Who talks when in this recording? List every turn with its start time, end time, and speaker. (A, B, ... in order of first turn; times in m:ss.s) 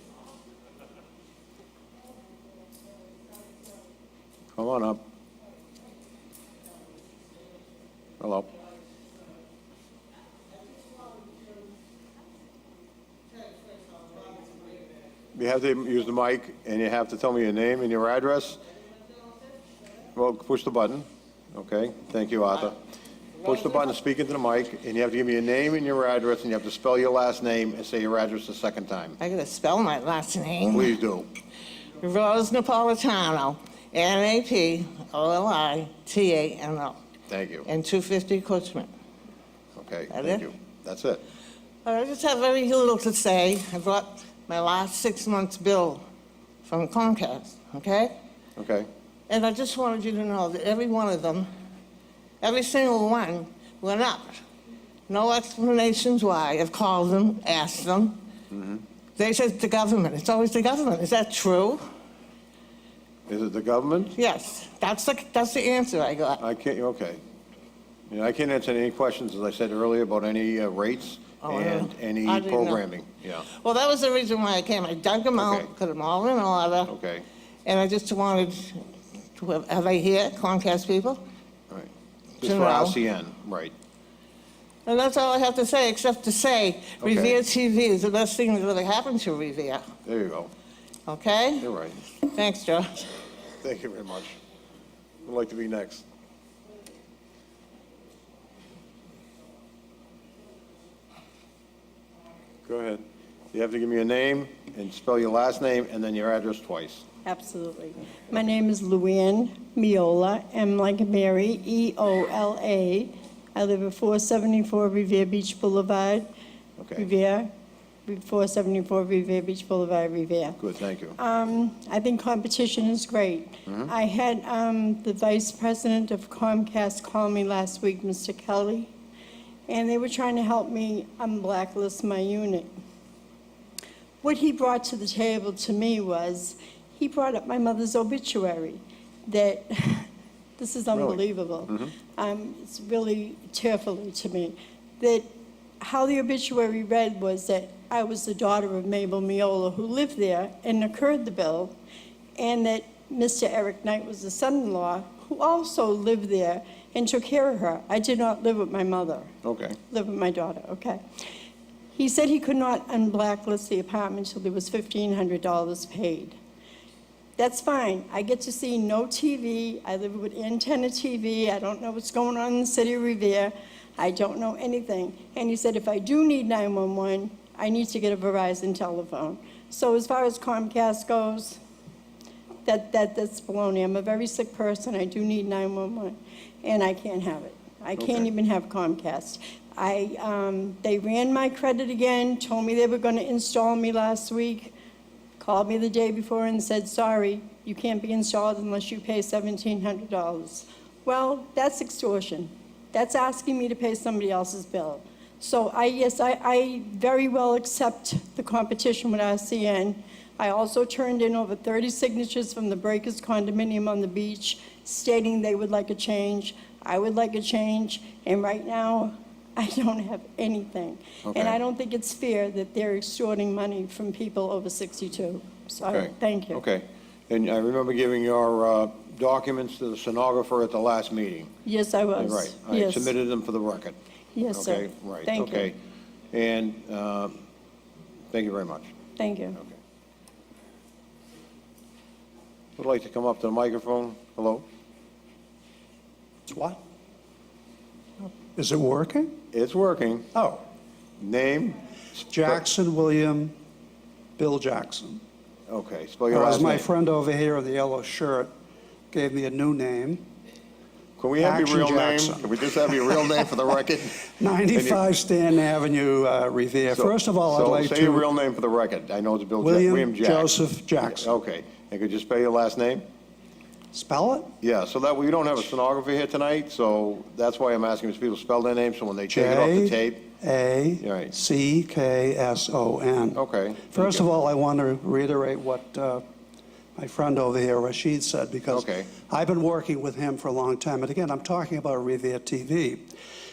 0:04.6-0:05.0 A
0:08.2-0:08.5 A
0:15.3-0:18.6 A
0:20.2-0:22.8 A
0:23.4-0:29.2 A
0:29.2-0:31.0 B
0:30.7-0:31.3 A
0:32.0-0:37.0 B
0:37.3-0:37.7 A
0:37.7-0:38.9 B
0:39.8-0:41.2 A
0:40.1-0:40.4 B
0:41.8-0:46.0 B
0:46.6-0:48.2 B
0:48.6-0:48.9 A
0:49.3-0:51.5 B
0:52.4-0:54.4 B
0:55.1-0:58.2 B
0:58.5-0:58.8 A
0:59.2-1:01.8 B
1:03.3-1:04.2 A
1:04.2-1:06.4 B
1:06.4-1:07.2 A
1:08.1-1:13.5 A
1:11.4-1:12.8 B
1:13.5-1:16.9 B
1:15.4-1:15.7 A
1:16.9-1:17.2 A
1:17.6-1:18.8 B
1:19.4-1:21.2 B
1:22.4-1:23.0 B
1:22.4-1:23.7 A
1:24.9-1:29.9 B
1:27.0-1:27.4 A
1:30.0-1:30.5 A
1:31.1-1:31.7 B
1:31.6-1:32.0 A
1:32.2-1:33.1 B
1:33.6-1:34.4 A
1:35.2-1:36.0 A
1:42.6-1:47.0 A
1:47.2-1:56.3 C
1:56.8-1:57.1 A
1:57.0-1:57.5 C
1:58.1-2:00.6 C
2:00.6-2:01.2 A
2:01.2-2:08.9 C
2:09.7-2:12.7 C
2:14.2-2:20.1 C
2:20.6-2:25.3 C
2:20.9-2:21.9 A
2:25.8-2:31.8 C
2:32.4-2:39.3 C
2:39.4-2:39.8 A
2:39.9-2:41.0 C
2:42.0-2:46.4 C
2:47.4-3:01.6 C
3:02.6-3:14.7 C
3:08.0-3:08.3 A
3:15.4-3:46.6 C
3:41.3-3:41.6 A
3:45.8-3:51.5 A
3:51.6-3:53.1 C
3:52.2-3:54.0 A
3:54.4-3:55.7 C
3:54.5-3:55.8 A
3:56.3-3:57.4 A
3:58.3-3:58.9 A
3:59.2-3:59.6 C
4:02.8-4:04.6 A
4:06.5-4:06.8 D
4:08.6-4:09.4 D
4:09.5-4:10.3 A
4:10.4-4:10.6 D
4:11.2-4:11.8 A
4:12.3-4:13.5 D
4:14.4-4:15.2 D
4:15.7-4:16.9 A
4:16.3-4:18.5 D
4:19.1-4:20.2 D
4:21.2-4:25.0 A
4:21.4-4:23.3 D
4:24.3-4:28.3 D
4:26.9-4:30.5 A
4:29.6-4:31.3 D
4:31.1-4:33.0 A
4:33.9-4:34.5 D
4:34.6-4:40.2 A
4:39.3-4:46.2 D
4:41.0-4:41.3 A
4:43.4-4:44.3 A
4:47.0-4:53.1 D
4:48.7-4:49.1 A